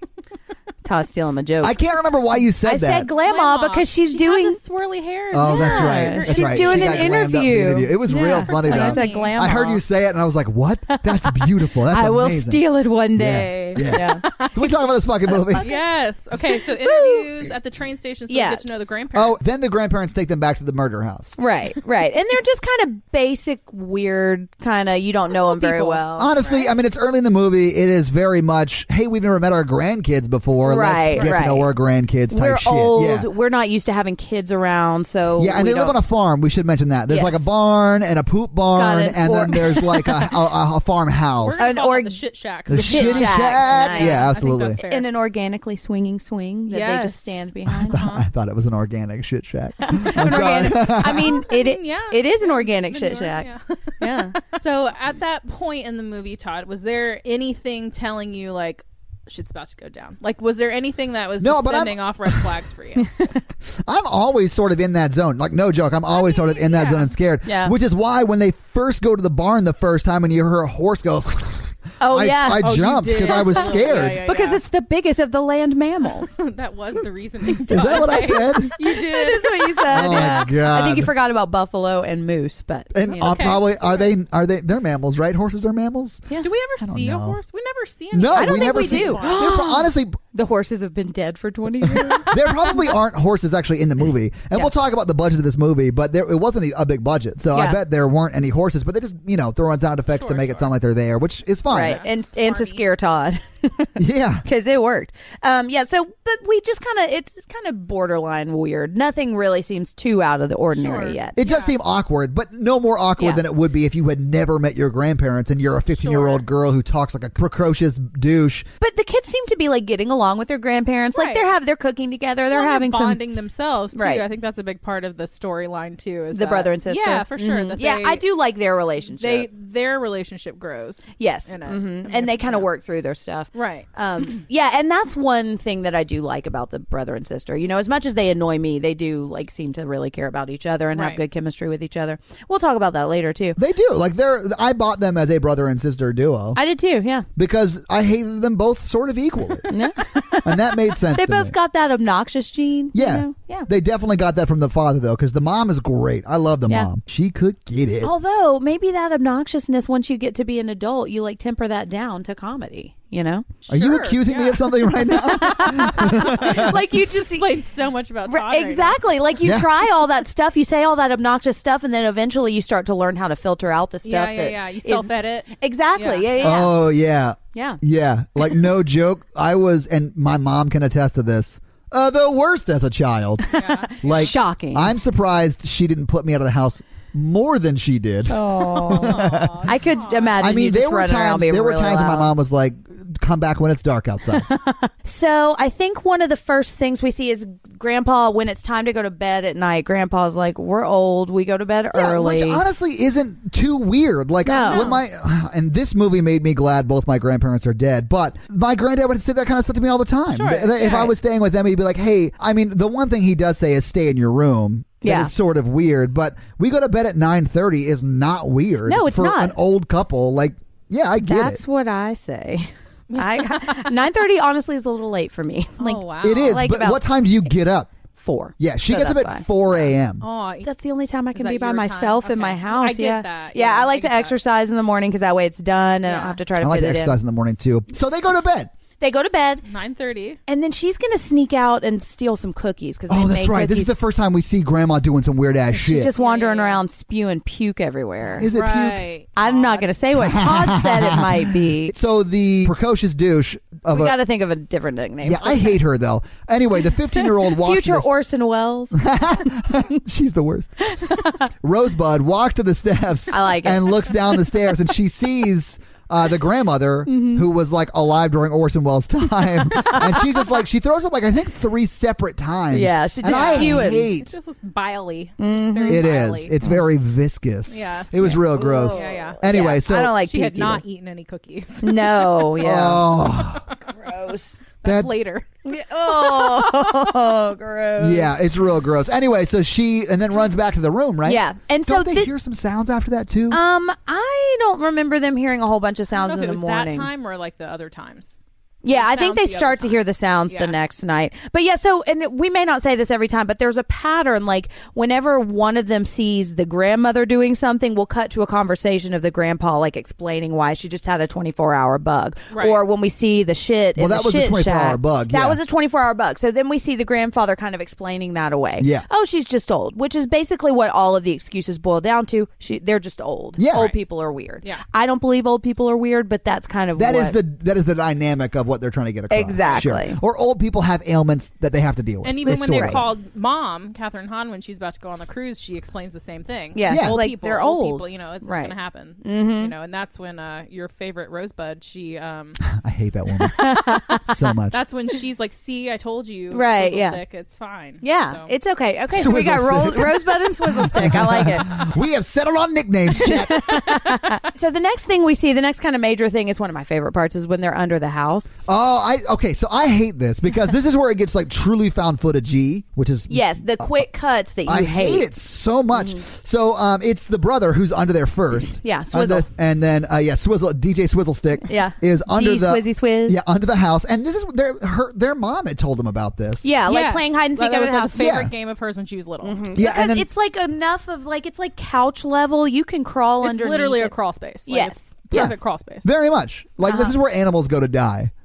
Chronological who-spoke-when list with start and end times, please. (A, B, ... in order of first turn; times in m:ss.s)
0:00.8-0:01.8 A
0:01.6-0:03.1 B
0:02.6-0:04.6 A
0:03.1-0:07.3 C
0:05.3-0:12.6 B
0:05.4-0:09.8 A
0:08.5-0:09.4 C
0:10.9-0:14.3 A
0:13.1-0:15.7 B
0:13.8-0:14.7 C
0:15.3-0:15.8 A
0:15.5-0:19.4 C
0:16.4-0:17.4 A
0:18.3-0:18.6 A
0:19.1-0:21.4 B
0:21.4-0:26.3 A
0:25.3-0:26.7 C
0:26.2-0:33.3 B
0:30.6-0:31.7 A
0:31.1-0:31.4 C
0:32.3-0:36.0 A
0:35.4-0:41.7 B
0:37.1-0:37.5 A
0:38.7-0:40.4 A
0:41.4-0:45.1 C
0:41.6-0:42.2 A
0:42.7-0:44.8 B
0:42.7-0:48.0 A
0:46.7-0:48.2 C
0:47.7-0:51.4 B
0:49.8-0:53.5 A
0:50.2-1:03.1 C
0:54.0-0:54.4 A
1:01.4-1:02.4 B
1:03.0-1:03.4 A
1:03.7-1:14.2 B
1:06.1-1:07.1 C
1:07.4-1:07.7 A
1:12.0-1:16.4 A
1:12.6-1:14.6 C
1:16.4-1:20.5 C
1:17.7-1:18.7 B
1:17.7-1:23.4 A
1:19.9-1:21.1 B
1:22.9-1:27.4 B
1:23.1-1:24.1 C
1:26.4-1:29.8 C
1:28.1-1:30.2 B
1:28.3-1:32.8 A
1:31.8-1:42.0 B
1:37.5-1:37.8 A
1:40.1-1:40.7 C
1:41.7-1:51.4 A
1:41.7-1:42.8 C
1:44.0-1:44.4 B
1:50.7-1:51.8 C
1:51.4-1:58.7 B
1:53.2-1:53.4 A
1:55.9-1:56.5 C
1:58.8-2:03.2 A
2:01.1-2:01.5 C
2:02.5-2:08.2 C
2:03.9-2:04.3 A
2:06.3-2:09.5 A
2:09.1-2:12.7 C
2:11.2-2:23.6 A
2:13.6-2:13.9 C
2:21.0-2:21.2 C
2:23.6-2:26.6 B
2:26.6-2:27.3 A
2:27.4-2:29.8 B
2:29.7-2:33.7 A
2:30.4-2:31.6 B
2:32.9-2:38.1 B
2:38.0-2:43.5 A
2:43.6-2:49.0 C
2:43.7-2:46.7 B
2:45.0-2:47.6 A
2:48.3-2:56.8 A
2:49.4-2:49.7 B
2:54.0-2:56.7 C
2:56.4-3:09.7 B
2:57.5-2:57.8 A
3:03.5-3:05.0 A
3:03.5-3:04.3 C
3:08.3-3:12.3 A
3:08.8-3:10.4 C
3:10.4-3:14.5 B
3:14.3-3:22.6 A
3:21.9-3:41.6 B
3:24.4-3:25.0 A
3:24.6-3:25.0 C
3:30.3-3:31.1 C
3:35.0-3:35.3 A
3:38.9-3:39.6 A
3:41.2-3:47.5 A
3:43.1-3:44.0 C
3:45.8-3:46.6 C
3:46.2-3:47.9 B
3:48.2-3:49.9 A
3:48.6-3:50.2 B
3:50.2-3:50.7 C
3:50.6-3:57.2 A
3:51.3-3:54.4 C
3:56.0-3:56.4 C
3:56.6-3:58.7 B
3:59.0-3:59.6 A
3:59.7-4:00.4 C
4:00.5-4:03.9 A
4:03.1-4:06.1 B
4:05.7-4:08.5 A
4:06.2-4:06.8 C
4:08.4-4:09.0 B
4:08.4-4:09.9 C
4:09.4-4:11.9 A
4:10.1-4:14.2 B
4:13.9-4:15.8 A
4:15.2-4:18.1 B
4:17.2-4:19.0 A
4:18.9-4:20.7 B
4:20.9-4:21.5 A
4:21.5-4:34.3 B
4:23.3-4:24.5 A
4:27.1-4:27.4 A
4:29.7-4:30.2 A
4:32.7-4:34.1 A
4:33.2-4:36.5 C
4:35.4-4:36.8 A
4:35.9-4:40.2 B
4:37.7-4:43.9 C
4:38.2-4:40.8 A
4:41.8-4:43.1 A
4:42.6-4:43.6 B
4:43.9-4:44.6 A
4:44.8-4:47.2 C
4:44.8-4:45.1 B
4:45.6-4:48.3 A
4:48.0-4:53.6 B
4:51.2-4:52.3 A
4:53.5-4:57.1 A
4:56.2-5:00.8 C
4:58.8-5:27.4 A
5:12.5-5:12.8 C
5:14.0-5:15.6 B
5:18.8-5:19.1 B
5:23.6-5:23.9 B
5:27.0-5:33.0 B
5:29.3-5:30.2 A
5:32.2-5:42.6 C
5:32.5-5:33.0 A
5:36.8-5:39.7 A
5:36.9-5:37.2 B
5:42.6-5:44.8 B
5:43.4-5:44.4 A
5:44.7-5:48.5 C
5:46.5-5:47.2 A
5:48.0-5:51.8 A
5:49.1-5:53.8 B
5:53.1-5:58.5 A
5:53.9-5:54.4 C
5:58.7-6:04.0 B
6:03.3-6:05.3 A
6:04.7-6:16.7 B
6:05.9-6:06.2 A
6:08.7-6:09.5 A
6:11.7-6:13.4 A
6:16.6-6:18.4 A
6:16.9-6:19.6 C
6:18.2-6:18.5 B
6:19.4-6:24.1 A
6:19.8-6:20.3 B
6:23.4-6:26.0 C
6:24.7-6:25.5 A
6:25.3-6:28.3 B
6:26.8-6:27.2 A